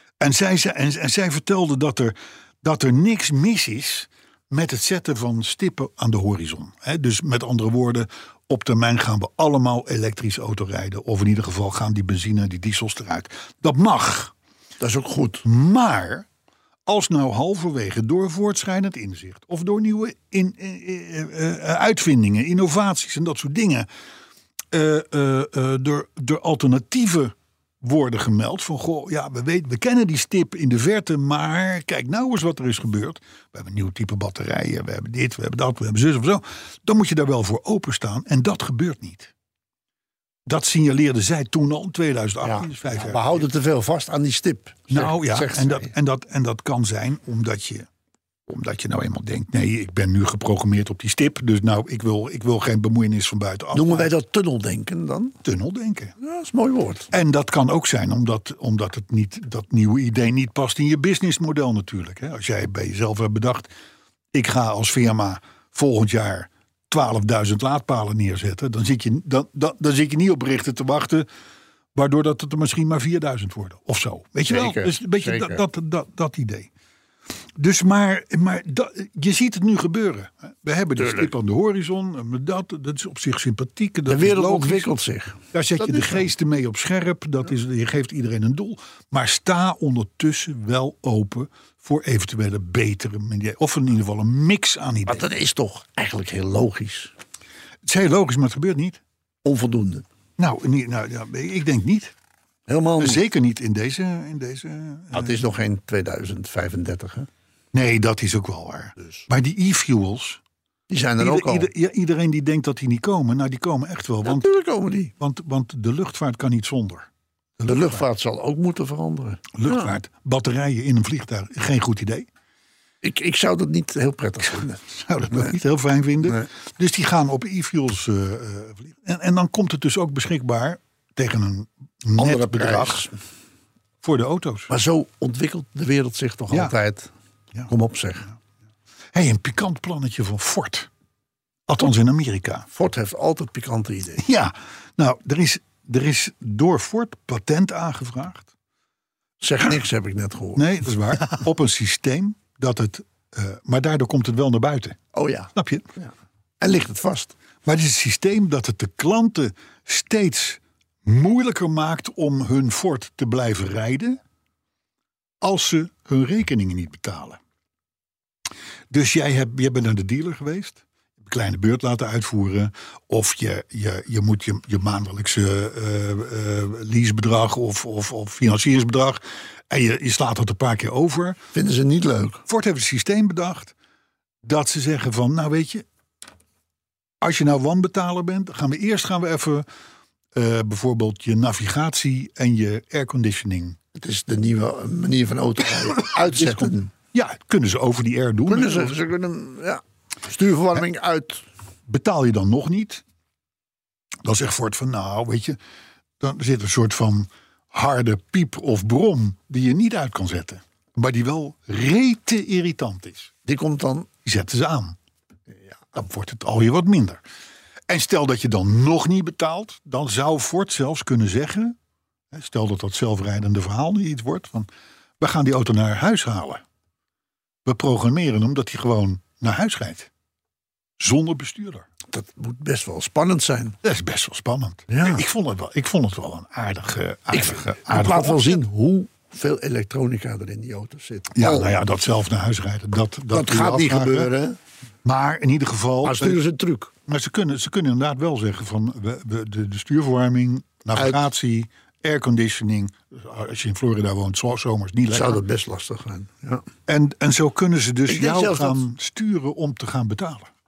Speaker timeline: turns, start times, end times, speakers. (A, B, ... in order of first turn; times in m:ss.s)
0:00.2-0:14.3 A
0:14.8-0:15.4 B
0:15.4-0:16.3 A
0:16.9-0:23.9 A
0:24.7-0:39.3 A
0:40.5-0:43.5 A
0:42.4-0:45.9 B
0:44.9-0:47.9 A
0:48.5-0:54.1 A
0:53.7-0:55.4 B
0:55.4-0:56.2 A
0:56.2-0:57.1 B
0:57.1-1:03.7 A
1:04.3-1:11.3 A
1:12.0-1:16.7 A
1:14.5-1:15.6 B
1:17.6-1:24.9 A
1:21.0-1:21.3 B
1:24.1-1:26.3 B
1:25.5-1:35.3 A
1:35.1-1:37.1 B
1:37.8-1:39.0 A
1:39.4-1:40.0 B
1:40.4-1:42.1 A
1:42.7-1:43.2 B
1:43.0-1:45.4 A
1:45.1-1:47.3 B
1:47.7-1:50.4 A
1:50.9-1:51.7 B
1:51.2-1:54.5 A
1:54.2-1:55.1 B
1:55.2-1:57.1 A
1:57.6-1:58.0 A
1:57.6-1:59.9 B
1:59.6-2:02.3 A
2:03.0-2:04.8 B
2:04.8-2:13.1 A
2:12.2-2:13.1 B
2:14.0-2:14.7 A
2:14.7-2:17.1 B
2:17.7-2:18.3 B
2:19.1-2:20.9 A
2:21.7-2:22.7 A
2:22.7-2:24.2 B
2:24.2-2:28.5 A
2:29.4-2:30.6 B
2:30.6-2:35.0 A
2:35.1-2:37.3 B
2:35.6-2:35.9 A
2:37.6-2:44.2 A
2:45.4-2:47.4 A
2:48.9-3:01.4 A
3:01.5-3:02.4 B
3:02.5-3:03.7 A
3:04.4-3:05.8 A
3:07.2-3:09.7 A
3:10.3-3:13.8 A
3:14.0-3:16.9 B
3:16.2-3:19.0 A
3:18.5-3:21.4 B
3:21.9-3:23.0 A
3:24.2-3:25.6 A
3:26.2-3:33.3 A
3:33.5-3:34.1 B
3:34.2-3:35.0 A
3:35.9-3:37.2 A
3:37.9-3:41.8 A
3:42.3-3:44.7 A
3:45.2-3:46.6 A
3:47.6-3:50.1 A
3:51.0-3:51.9 A
3:52.1-3:53.8 B
3:53.8-3:58.6 A
3:54.9-3:55.2 B
3:57.3-4:01.8 B
4:01.3-4:04.3 A
4:03.3-4:04.6 B
4:05.0-4:06.4 A
4:06.0-4:06.9 B
4:07.1-4:15.4 A
4:15.1-4:16.6 B
4:16.9-4:20.5 A
4:18.1-4:18.8 B